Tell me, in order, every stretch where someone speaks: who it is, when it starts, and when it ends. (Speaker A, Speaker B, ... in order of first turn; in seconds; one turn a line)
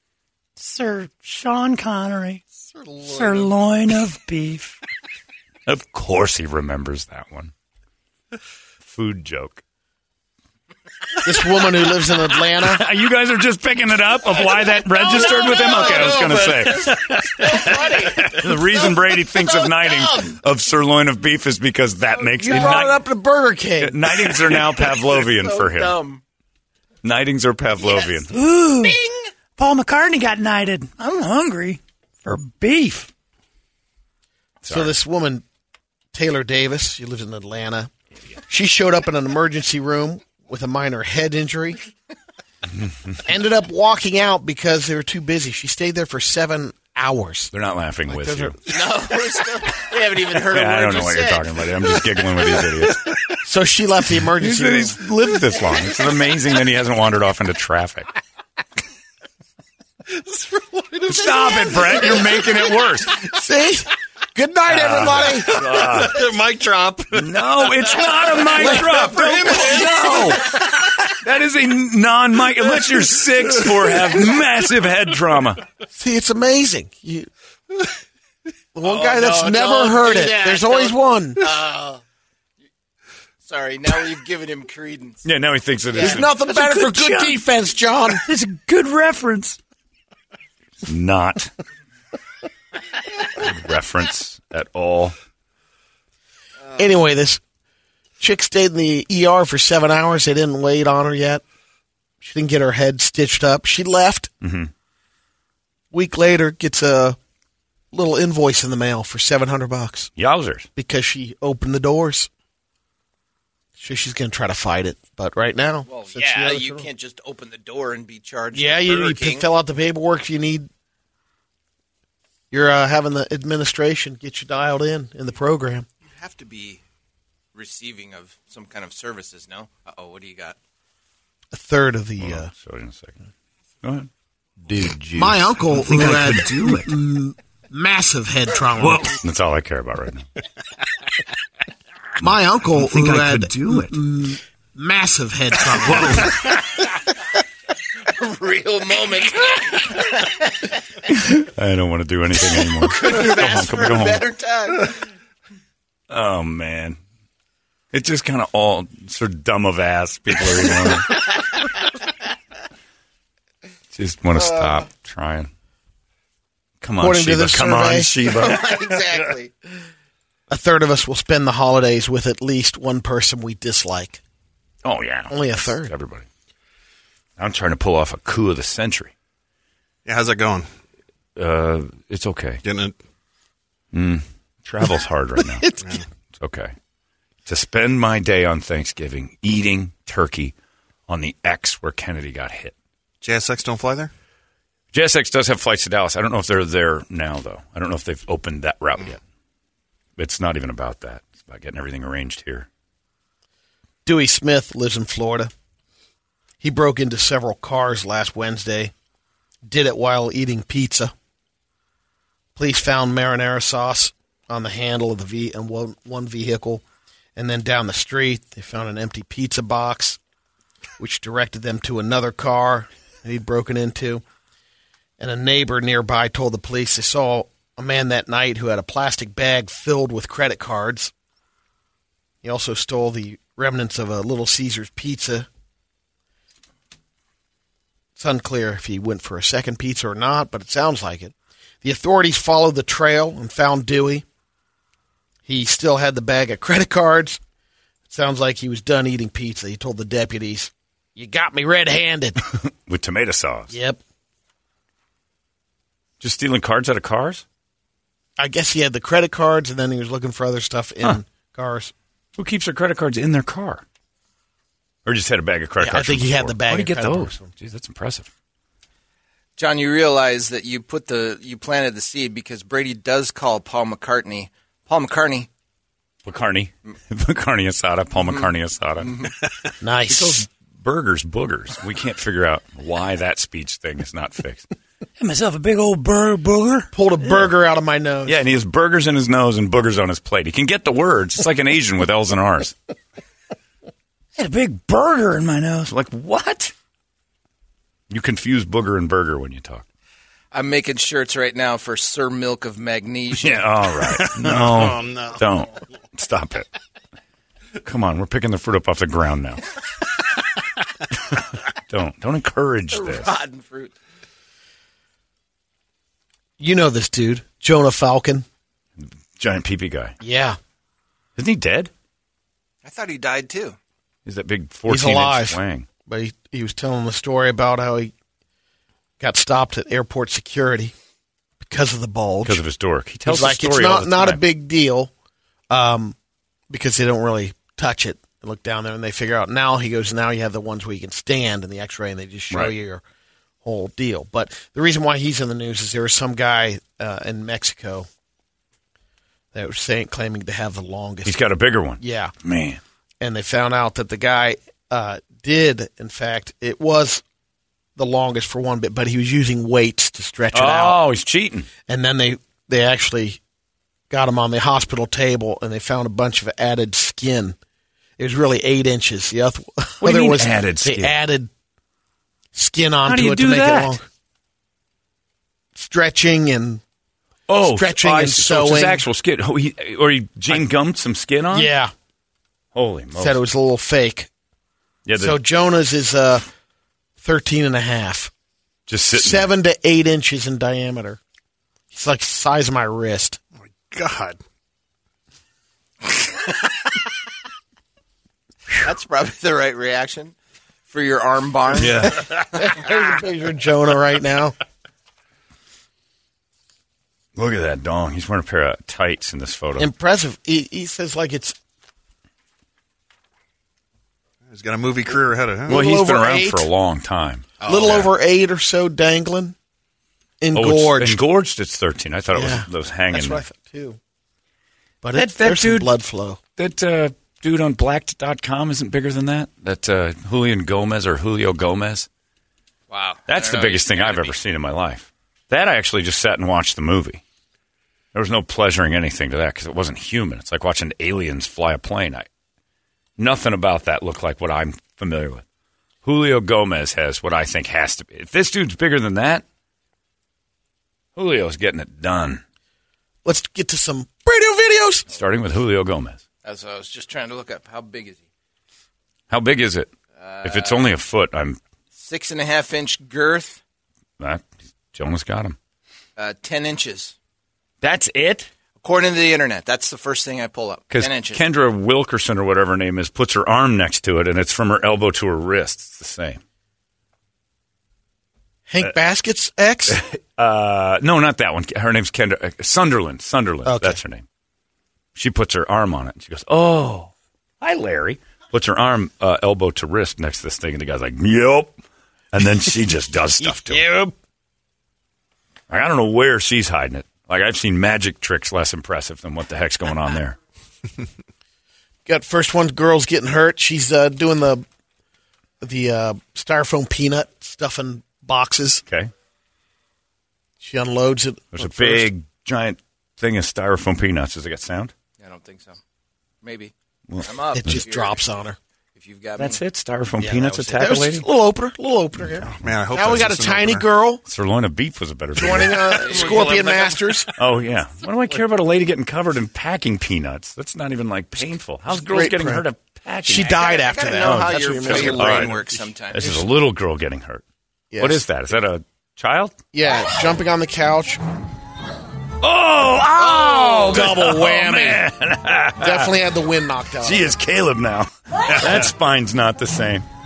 Speaker A: 0.6-2.4
Speaker A: 3.0-4.8
Speaker B: 5.7-7.5
Speaker B: 8.8-9.6
Speaker C: 11.2-12.8
Speaker B: 12.6-23.0
Speaker D: 14.9-20.3
Speaker C: 22.4-24.4
Speaker D: 22.5-22.8
Speaker B: 23.8-26.0
Speaker D: 25.0-26.2
Speaker B: 27.0-28.3
Speaker A: 28.3-29.0
Speaker D: 28.8-29.3
Speaker A: 29.6-33.1
Speaker B: 34.6-34.9
Speaker C: 34.7-35.4
Speaker C: 36.1-37.9
Speaker C: 38.5-41.8
Speaker C: 43.2-47.5
Speaker B: 47.5-48.6
Speaker C: 48.1-48.6
Speaker D: 48.6-51.6
Speaker B: 50.5-53.2
Speaker C: 53.4-55.0
Speaker B: 54.4-58.1
Speaker E: 60.1-62.6
Speaker B: 61.0-63.2
Speaker C: 63.2-65.5
Speaker B: 64.7-66.2
Speaker E: 65.4-70.6
Speaker B: 67.1-70.6
Speaker B: 71.1-75.6
Speaker C: 75.9-77.3
Speaker C: 78.7-81.4
Speaker D: 78.8-82.0
Speaker D: 83.4-85.2
Speaker B: 85.2-86.3
Speaker D: 85.9-86.2
Speaker C: 86.0-88.2
Speaker A: 86.4-87.4
Speaker A: 88.2-89.6
Speaker B: 90.8-91.5
Speaker B: 93.3-95.2
Speaker C: 96.8-97.4
Speaker C: 98.2-101.4
Speaker C: 102.2-104.3
Speaker B: 104.4-104.7
Speaker C: 105.9-107.2
Speaker C: 107.9-110.1
Speaker B: 110.2-110.7
Speaker C: 110.8-112.3
Speaker C: 113.8-116.9
Speaker D: 115.9-119.4
Speaker C: 118.5-120.7
Speaker C: 122.5-125.9
Speaker D: 126.0-126.8
Speaker D: 127.5-130.6
Speaker C: 131.5-132.5
Speaker B: 132.2-133.2
Speaker B: 133.8-134.1
Speaker B: 134.6-135.6
Speaker C: 135.1-139.2
Speaker A: 135.8-137.0
Speaker B: 139.0-140.2
Speaker C: 142.2-146.4
Speaker A: 142.9-143.9
Speaker D: 146.4-146.8
Speaker D: 148.1-150.7
Speaker B: 151.2-154.2
Speaker D: 152.8-155.0
Speaker B: 156.1-157.0
Speaker B: 157.9-161.2
Speaker B: 163.9-165.5
Speaker B: 166.8-168.6
Speaker C: 167.0-168.1
Speaker D: 168.2-169.5
Speaker C: 170.5-174.2
Speaker B: 174.8-176.3
Speaker C: 175.3-175.9
Speaker B: 177.4-179.1
Speaker E: 180.1-180.7
Speaker B: 181.3-182.6
Speaker E: 182.6-182.9
Speaker B: 183.9-185.7
Speaker B: 186.3-186.7
Speaker B: 187.4-190.5
Speaker B: 191.1-192.7
Speaker E: 193.2-194.1
Speaker B: 194.9-199.2
Speaker B: 200.2-202.7
Speaker C: 204.1-205.5
Speaker C: 206.6-208.9
Speaker C: 209.6-211.1
Speaker C: 212.6-216.8
Speaker C: 217.3-220.2
Speaker C: 221.0-224.2
Speaker C: 225.2-231.1
Speaker C: 232.4-235.5
Speaker C: 238.2-244.2
Speaker C: 245.4-247.4
Speaker C: 248.1-252.4
Speaker B: 252.6-253.7
Speaker C: 253.7-254.0
Speaker B: 256.2-257.4
Speaker C: 258.4-261.9
Speaker B: 262.4-263.8
Speaker B: 265.0-268.3
Speaker C: 265.8-267.5
Speaker D: 269.6-275.5
Speaker B: 276.2-279.2
Speaker C: 279.8-280.4
Speaker B: 280.1-284.7
Speaker A: 285.2-286.9
Speaker C: 286.9-288.4
Speaker B: 288.2-292.8
Speaker A: 294.4-295.9
Speaker B: 295.8-296.7
Speaker B: 298.1-299.8
Speaker D: 300.5-303.7
Speaker B: 303.4-306.7
Speaker E: 304.1-305.4
Speaker B: 307.8-309.6
Speaker B: 311.3-313.3
Speaker D: 312.9-313.9
Speaker C: 316.6-318.4
Speaker B: 319.0-320.1
Speaker C: 320.2-320.6
Speaker B: 321.4-321.9
Speaker D: 322.8-323.8
Speaker B: 324.2-325.9
Speaker C: 324.9-328.1
Speaker C: 329.2-330.9
Speaker C: 331.6-332.6
Speaker B: 332.4-334.4
Speaker C: 333.2-335.1
Speaker C: 335.7-336.1
Speaker C: 336.7-343.0
Speaker B: 342.5-342.7
Speaker C: 343.6-348.1
Speaker C: 349.5-351.4
Speaker B: 351.2-352.8
Speaker C: 352.0-352.3
Speaker C: 353.2-357.2
Speaker C: 357.9-361.0
Speaker B: 360.5-361.7
Speaker C: 361.9-363.4
Speaker C: 364.1-367.6
Speaker C: 368.2-371.5
Speaker B: 370.0-371.2
Speaker C: 372.5-374.1
Speaker B: 373.1-373.9
Speaker C: 375.7-376.8
Speaker B: 377.5-381.7
Speaker C: 377.6-379.0
Speaker C: 381.5-381.9
Speaker B: 382.7-383.4
Speaker C: 383.1-384.3
Speaker B: 385.1-385.4
Speaker C: 385.2-386.4
Speaker C: 387.2-388.3
Speaker B: 388.9-389.5
Speaker C: 389.1-391.2
Speaker C: 391.9-393.4
Speaker E: 393.7-394.4
Speaker D: 396.1-396.9
Speaker D: 398.7-400.3
Speaker D: 400.9-402.8
Speaker B: 401.8-402.2
Speaker C: 402.4-404.6
Speaker B: 407.4-409.9
Speaker C: 409.8-411.6
Speaker E: 414.5-415.8
Speaker C: 415.7-416.7
Speaker B: 415.7-417.5
Speaker D: 417.6-418.1
Speaker C: 417.6-419.6
Speaker C: 420.4-421.2
Speaker B: 420.5-423.4
Speaker C: 422.3-424.0
Speaker C: 425.0-426.4
Speaker B: 425.1-425.9
Speaker B: 426.6-432.1
Speaker D: 432.9-434.3
Speaker B: 433.3-437.2
Speaker B: 438.1-442.3
Speaker B: 443.2-445.4
Speaker B: 446.0-449.4
Speaker B: 451.1-452.4
Speaker C: 453.2-455.1
Speaker B: 455.1-456.2
Speaker D: 456.4-458.2
Speaker B: 459.3-459.9
Speaker D: 460.1-460.8
Speaker B: 460.4-461.6
Speaker D: 461.9-463.6
Speaker B: 464.2-465.6
Speaker D: 466.2-467.1
Speaker B: 467.8-468.5
Speaker D: 468.8-471.4
Speaker B: 470.9-476.4
Speaker C: 478.7-480.0
Speaker B: 479.9-484.2
Speaker C: 483.6-484.0
Speaker B: 485.1-491.8
Speaker B: 492.3-493.9
Speaker C: 493.4-494.1
Speaker B: 495.7-500.4
Speaker C: 502.1-504.6
Speaker C: 505.6-508.8
Speaker B: 508.9-509.1
Speaker C: 510.6-512.1
Speaker B: 511.5-514.9
Speaker D: 515.2-515.8
Speaker D: 516.4-518.2
Speaker B: 517.1-517.8
Speaker C: 517.5-518.6
Speaker D: 518.9-519.6
Speaker B: 519.4-521.3
Speaker C: 520.2-524.2
Speaker E: 522.5-523.8
Speaker B: 524.2-526.4
Speaker C: 525.4-527.3
Speaker D: 525.9-527.2
Speaker B: 527.4-533.5
Speaker C: 531.9-532.6
Speaker C: 533.2-535.6
Speaker D: 533.3-536.4
Speaker B: 534.2-535.5
Speaker E: 535.0-535.7
Speaker B: 536.1-537.4
Speaker C: 537.9-538.2
Speaker B: 538.0-539.6
Speaker C: 539.7-541.2
Speaker B: 542.4-546.1
Speaker D: 543.4-543.9
Speaker C: 543.6-545.0
Speaker C: 545.8-547.4
Speaker B: 547.0-550.0